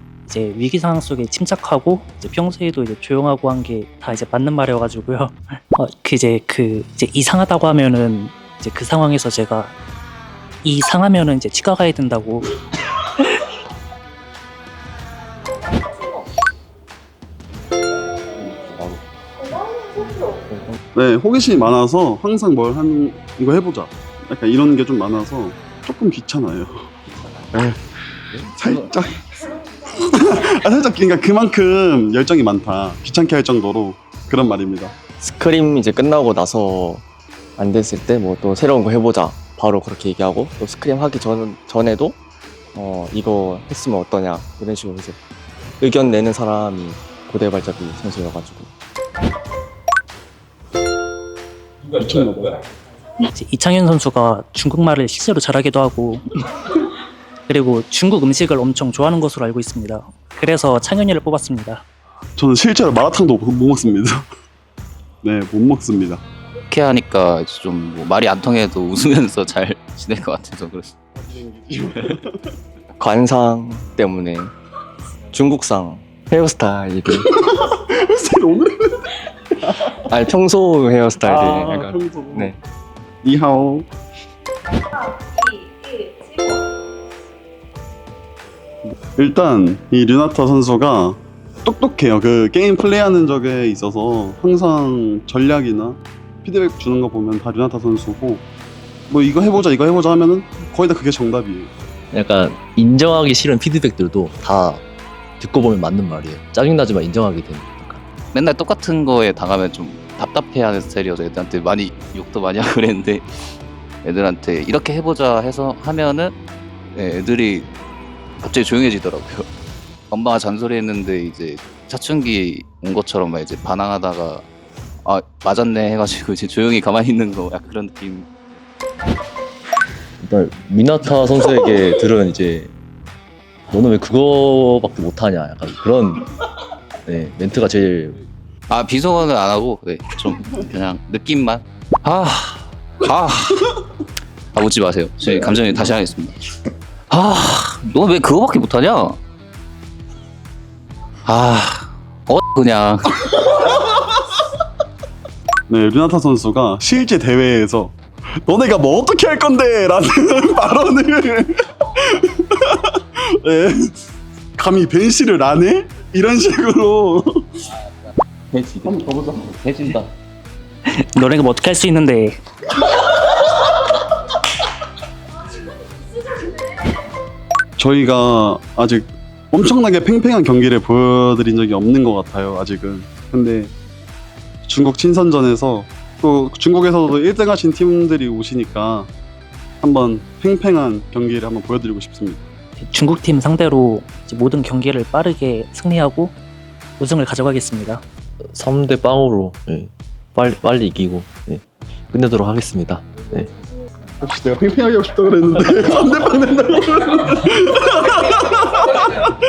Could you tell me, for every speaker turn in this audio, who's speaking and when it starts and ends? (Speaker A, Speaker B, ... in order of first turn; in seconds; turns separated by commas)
Speaker A: 0.3-9.7, Speaker A: 10.6-12.5, Speaker B: 18.6-19.0, Speaker B: 20.5-20.8, Speaker C: 20.9-26.9, Speaker C: 27.5-27.8, Speaker C: 28.4-29.2, Speaker D: 28.6-28.9, Speaker C: 29.9-35.0, Speaker B: 35.2-37.0, Speaker B: 37.6-42.2, Speaker B: 42.7-45.2, Speaker B: 45.8-48.7, Speaker C: 51.9-52.6, Speaker A: 53.3-56.7, Speaker A: 57.5-61.8, Speaker C: 62.4-64.3, Speaker C: 65.2-66.2, Speaker D: 66.7-70.9, Speaker C: 71.2-72.5, Speaker B: 73.0-74.5, Speaker B: 75.3-77.3, Speaker C: 77.1-80.1, Speaker B: 80.1-82.6, Speaker C: 81.2-82.5, Speaker C: 83.2-83.9, Speaker C: 89.2-98.5, Speaker C: 99.1-101.7, Speaker E: 102.1-104.8, Speaker E: 105.4-108.0, Speaker D: 108.3-113.3, Speaker D: 114.0-116.4, Speaker D: 116.9-117.7, Speaker D: 118.4-119.5, Speaker D: 120.1-124.5, Speaker D: 125.0-128.3, Speaker E: 130.2-132.7, Speaker E: 133.7-136.3, Speaker E: 137.1-138.2, Speaker D: 138.7-143.7, Speaker D: 144.5-146.4, Speaker D: 147.1-149.2, Speaker D: 151.3-153.1, Speaker C: 155.7-163.9, Speaker C: 164.6-167.5, Speaker D: 168.5-170.1, Speaker A: 170.9-172.4, Speaker C: 177.8-183.7, Speaker C: 184.7-189.1, Speaker C: 189.8-192.4, Speaker A: 192.8-196.3, Speaker A: 197.0-198.0, Speaker E: 198.5-203.5, Speaker C: 204.2-209.3